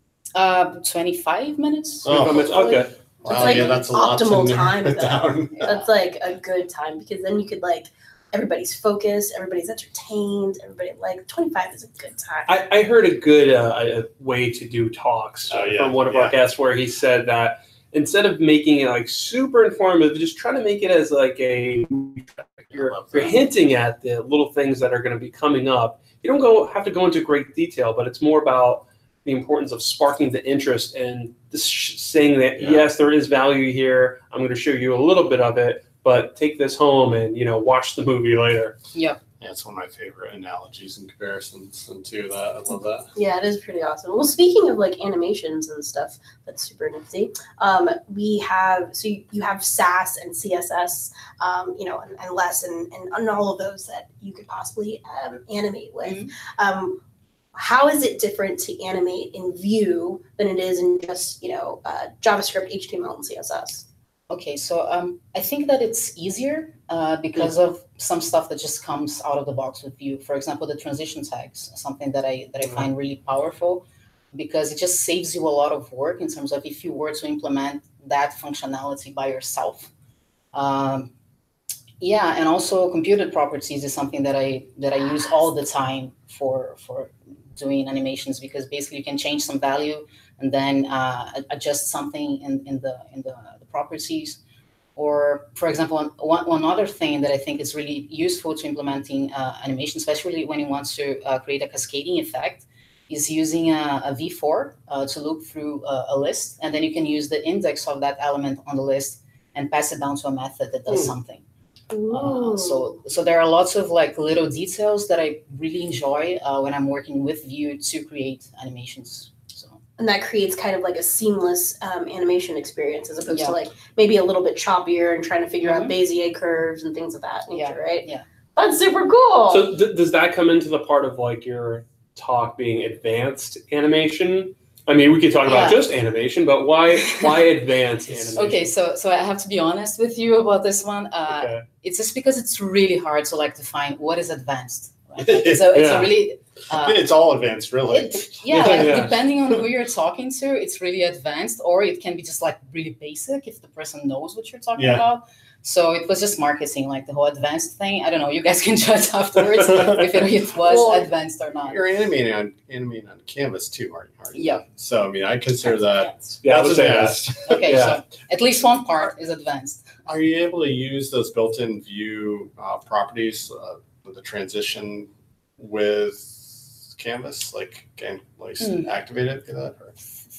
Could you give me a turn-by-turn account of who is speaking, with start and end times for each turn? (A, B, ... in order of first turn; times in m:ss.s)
0:00.4-0:02.6 A
0:02.0-0:02.9 B
0:02.0-0:05.8 C
0:03.2-0:03.7 A
0:03.3-0:12.5 D
0:05.6-0:05.9 A
0:12.5-0:38.8 B
0:15.5-0:16.4 C
0:22.7-0:23.4 C
0:32.6-0:32.9 C
0:38.9-0:39.2 A
0:39.4-0:43.1 C
0:43.2-0:57.0 D
0:56.0-0:56.3 A
0:57.6-1:03.8 D
1:04.3-1:19.9 A
1:20.5-1:21.1 A
1:22.0-1:34.4 A
1:35.0-1:51.4 A
1:51.9-1:52.9 D
1:52.1-1:59.8 A
2:00.0-2:09.7 D
2:03.3-2:03.6 A
2:05.6-2:06.0 A
2:07.5-2:08.2 A
2:09.5-2:18.7 B
2:15.4-2:15.9 A
2:17.0-2:17.4 A
2:18.4-2:27.0 A
2:21.3-2:21.6 B
2:25.2-2:25.7 C
2:25.7-2:26.1 B
2:26.7-2:29.1 C
2:27.9-2:41.9 A
2:28.5-2:29.1 B
2:34.8-2:35.0 C
2:39.7-2:40.0 C
2:40.6-2:41.1 D
2:41.7-2:47.8 C
2:44.4-2:44.6 A
2:46.0-2:46.3 D
2:46.4-2:48.0 B
2:47.4-2:49.9 A
2:50.1-2:59.9 C
2:58.6-2:58.9 A